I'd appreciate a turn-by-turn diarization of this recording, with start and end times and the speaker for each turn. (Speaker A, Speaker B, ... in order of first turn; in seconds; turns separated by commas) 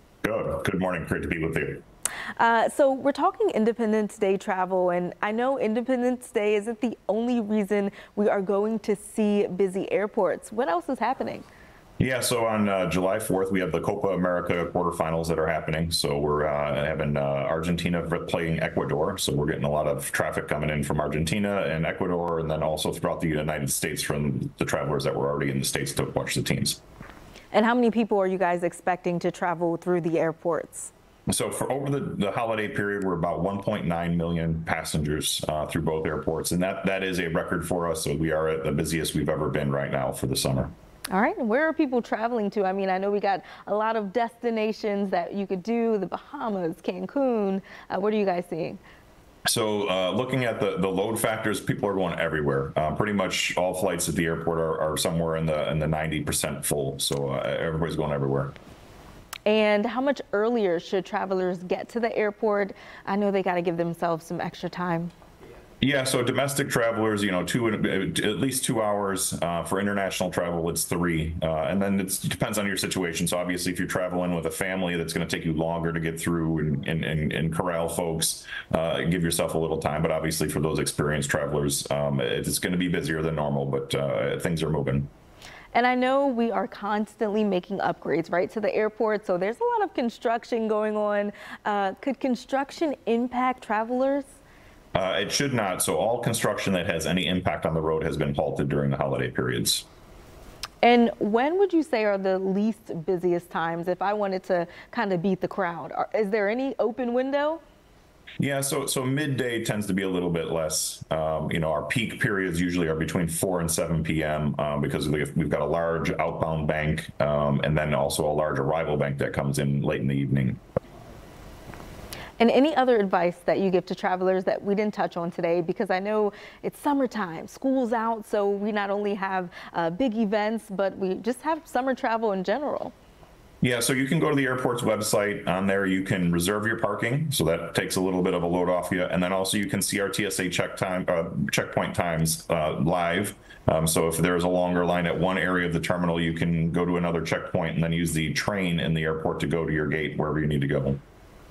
Speaker A: 0.2-1.8, Speaker B: 2.4-11.4, Speaker A: 12.0-26.8, Speaker B: 27.5-30.9, Speaker A: 31.3-40.7, Speaker B: 41.1-48.8, Speaker A: 49.5-58.5, Speaker B: 59.5-65.1, Speaker A: 65.8-85.1, Speaker B: 85.7-94.3, Speaker A: 94.9-99.8, Speaker B: 100.8-107.6, Speaker A: 108.4-120.6, Speaker B: 122.4-132.9, Speaker A: 133.6-151.0